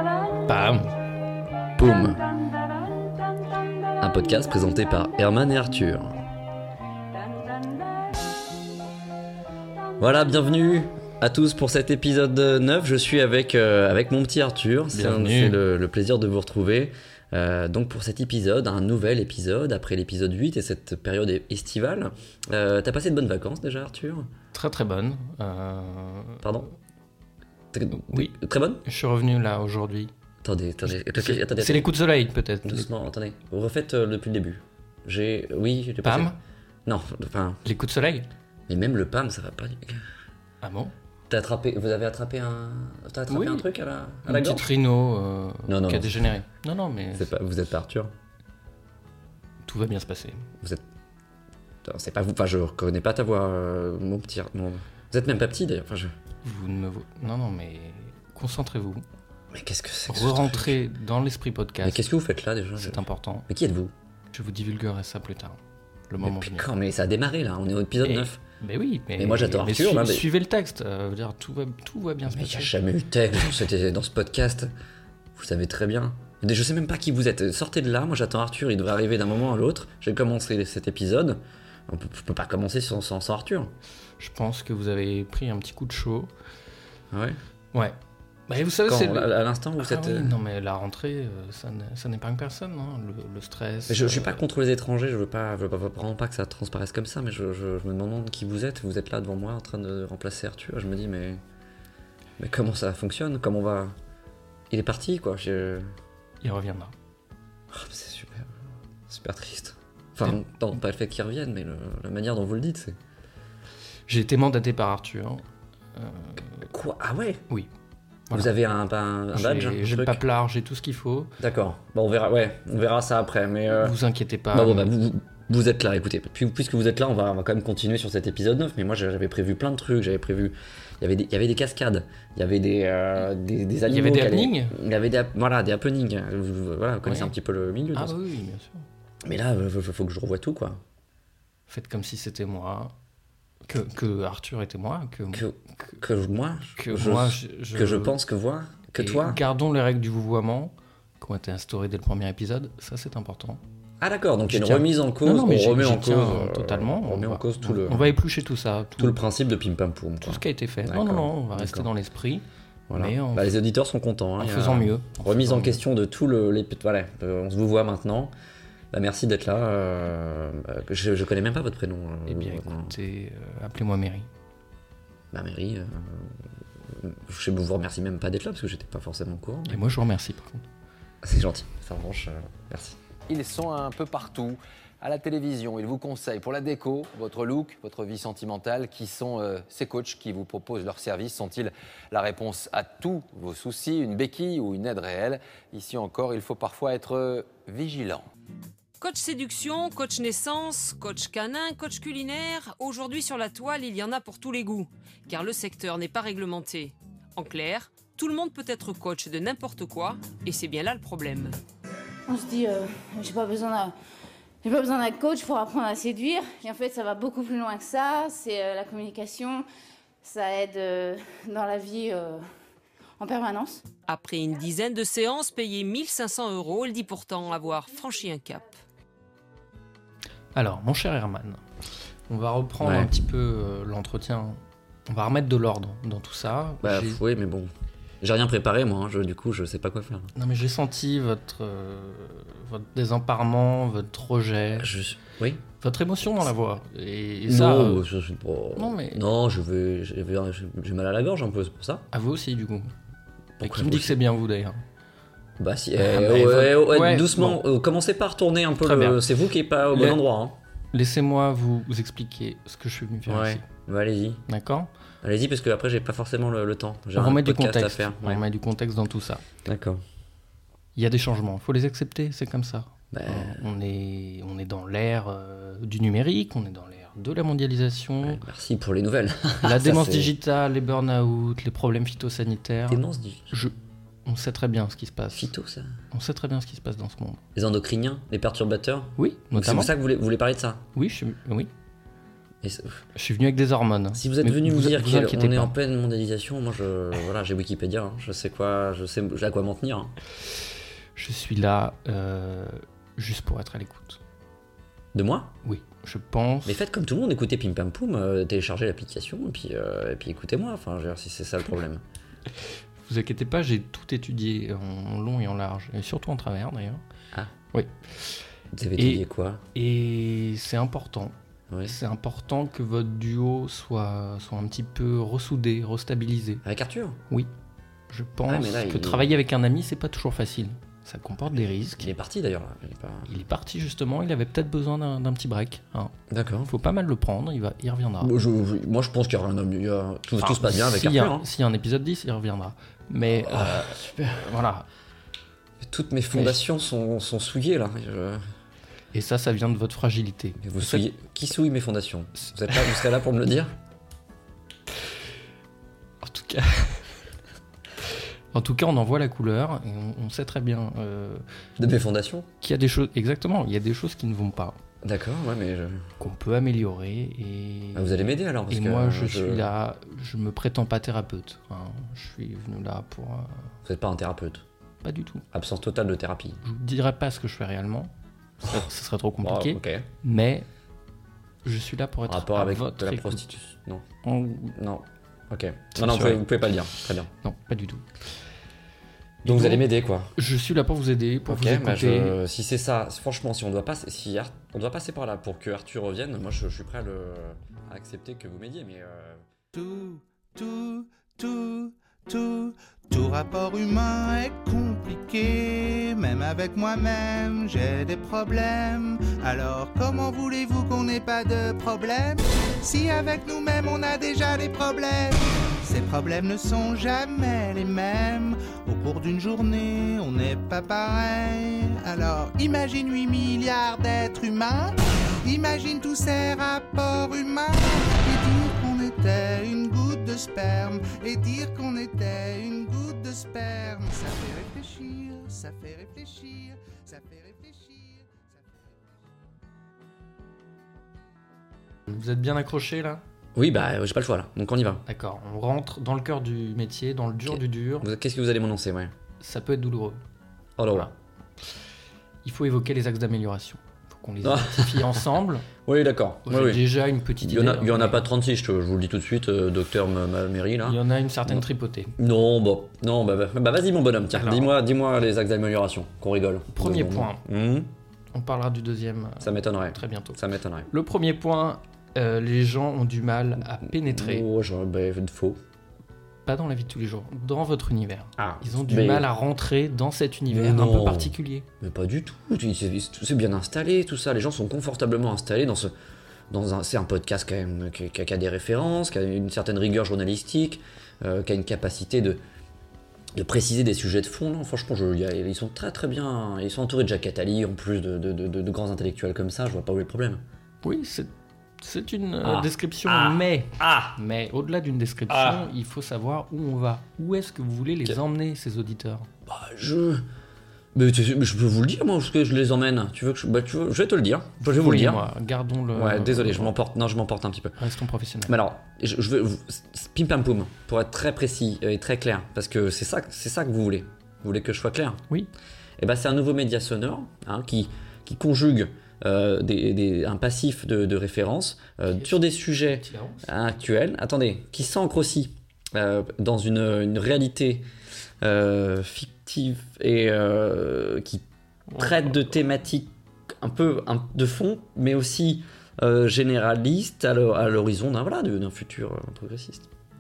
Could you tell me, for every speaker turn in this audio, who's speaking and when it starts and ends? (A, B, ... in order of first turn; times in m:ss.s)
0:00.5-0:00.9 A
0:01.8-0:02.2 B
0:04.0-0:06.2 B
0:10.0-0:24.3 B
0:14.9-0:15.6 A
0:24.5-0:26.4 A
0:26.4-0:26.7 B
0:27.7-0:28.8 B
0:27.9-0:30.1 A
0:30.4-0:31.9 B
0:30.9-0:32.9 A
0:32.6-0:36.3 B
0:36.0-0:36.4 A
0:36.9-0:37.6 B
0:37.6-0:38.3 A
0:38.7-0:40.0 B
0:40.6-0:40.9 A
0:41.3-0:44.7 B
0:43.3-0:43.7 A
0:44.2-0:47.3 A
0:45.7-0:46.3 B
0:47.2-0:48.1 B
0:49.7-0:50.5 A
0:51.8-0:56.1 B
0:56.4-0:59.0 A
0:59.5-1:00.8 B
1:00.1-1:02.1 A
1:01.8-1:03.9 B
1:02.8-1:03.5 A
1:04.3-1:06.7 A
1:06.2-1:08.4 B
1:08.0-1:12.7 A
1:09.2-1:10.2 B
1:12.3-1:14.7 B
1:15.4-1:23.7 B
1:24.2-1:26.3 A
1:27.1-1:27.4 B
1:28.5-1:34.4 A
1:28.9-1:30.4 B
1:33.9-1:41.4 B
1:42.4-1:44.0 B
1:44.7-1:45.9 B
1:46.4-1:46.9 A
1:47.7-1:48.5 B
1:49.1-1:53.0 B
1:54.1-1:55.4 A
1:56.0-1:56.7 A
1:56.7-1:57.4 B
1:58.3-2:00.2 B
1:59.3-2:01.3 A
2:01.4-2:04.0 B
2:03.7-2:04.9 A
2:04.5-2:18.2 B
2:13.9-2:14.8 A
2:17.0-2:17.3 A
2:17.9-2:18.9 A
2:19.2-2:20.8 B
2:21.7-2:22.9 A
2:23.7-2:26.0 A
2:25.3-2:29.4 B
2:26.8-2:28.2 A
2:29.0-2:33.6 A
2:34.0-2:38.2 B
2:34.5-2:39.2 A
2:39.0-2:41.9 B
2:40.2-2:43.5 A
2:42.9-2:48.3 B
2:44.4-2:45.8 A
2:48.9-2:52.9 B
2:52.3-2:54.3 A
2:55.3-2:56.4 B
2:56.9-2:59.8 B
2:59.7-3:00.6 A
3:01.2-3:03.0 B
3:03.3-3:18.3 C
3:19.0-3:31.6 D
3:32.3-3:34.0 E
3:34.6-3:39.6 E
3:40.2-3:42.5 E
3:43.2-3:43.8 E
3:44.1-3:48.7 D
3:50.6-3:51.6 A
3:52.3-3:57.2 A
3:52.8-3:53.1 B
3:56.8-3:57.7 B
3:58.2-4:00.3 B
4:00.4-4:04.9 A
4:04.8-4:05.6 B
4:05.8-4:08.0 A
4:07.5-4:12.1 B
4:08.8-4:09.2 A
4:12.1-4:12.9 A
4:13.6-4:14.2 B
4:13.6-4:14.8 A
4:15.6-4:20.6 B
4:16.0-4:17.6 A
4:18.8-4:19.2 A
4:19.9-4:20.2 A
4:20.9-4:23.6 A
4:23.3-4:24.4 B
4:24.5-4:24.9 A
4:25.2-4:28.4 B
4:27.2-4:29.4 A
4:29.6-4:30.0 B
4:31.0-4:38.4 A
4:33.1-4:33.6 B
4:38.2-4:40.3 B
4:39.6-4:43.8 A
4:42.9-4:43.5 B
4:44.3-4:45.5 A
4:45.3-4:45.9 B
4:46.1-4:47.4 A
4:47.6-4:50.8 B
4:49.2-4:49.9 A
4:51.0-4:51.7 A
4:52.6-4:53.0 B
4:53.2-4:55.7 A
4:54.1-5:00.1 B
5:01.2-5:04.2 A
5:05.1-5:05.5 B
5:05.6-5:06.8 A
5:06.7-5:12.0 B
5:12.6-5:17.0 A
5:17.7-5:18.4 A
5:18.7-5:19.6 B
5:19.0-5:19.2 A
5:19.7-5:26.6 A
5:21.7-5:22.0 B
5:26.6-5:27.2 B
5:28.1-5:32.1 A
5:28.5-5:29.3 B
5:32.0-5:33.3 B
5:33.3-5:36.1 A
5:36.3-5:36.7 B
5:36.7-5:38.3 A
5:38.2-5:41.5 B
5:40.4-5:44.9 A
5:43.4-5:44.5 B
5:45.8-5:48.4 B
5:46.3-5:46.6 A
5:49.1-5:51.1 A
5:50.6-5:53.7 B
5:56.2-5:57.2 A
5:58.5-6:01.4 A
6:01.8-6:02.5 B
6:02.6-6:04.8 A
6:05.0-6:06.1 B
6:06.2-6:13.7 A
6:08.0-6:09.6 B
6:13.8-6:14.6 B
6:15.0-6:15.4 A
6:15.5-6:16.6 B
6:16.6-6:20.7 A
6:19.4-6:20.1 B
6:21.6-6:23.6 A
6:22.3-6:24.0 B
6:24.2-6:24.8 A
6:24.8-6:27.3 B
6:25.9-6:28.1 A
6:29.4-6:30.3 B
6:29.4-6:32.4 A
6:31.5-6:39.4 B
6:39.7-7:18.4 F
7:22.1-7:23.2 A
7:23.6-7:25.0 B
7:25.1-7:28.1 A
7:27.5-7:29.1 B
7:29.4-7:30.2 A
7:30.8-7:31.1 B
7:32.4-7:35.7 A
7:34.4-7:35.2 B
7:35.8-7:36.8 B
7:36.5-7:38.2 A
7:37.4-7:41.6 B
7:40.8-7:42.2 A
7:42.2-7:47.9 B
7:44.3-7:44.7 A
7:46.7-7:47.4 A
7:48.3-7:54.5 A
7:49.4-7:50.9 B
7:53.8-7:55.6 B
7:56.5-8:01.7 A
7:58.4-7:59.3 B
8:00.5-8:05.9 B
8:06.5-8:12.4 B
8:13.3-8:20.4 B
8:20.8-8:29.3 A
8:22.4-8:24.2 B
8:25.3-8:25.7 B
8:29.5-8:30.2 B
8:31.0-8:35.2 B
8:34.6-8:36.8 A
8:35.9-8:37.8 B
8:37.8-8:38.6 A
8:38.5-8:45.2 B
8:46.0-8:57.9 B
8:52.1-8:53.5 A
8:58.4-9:01.4 B
9:01.9-9:02.6 A
9:02.0-9:09.9 B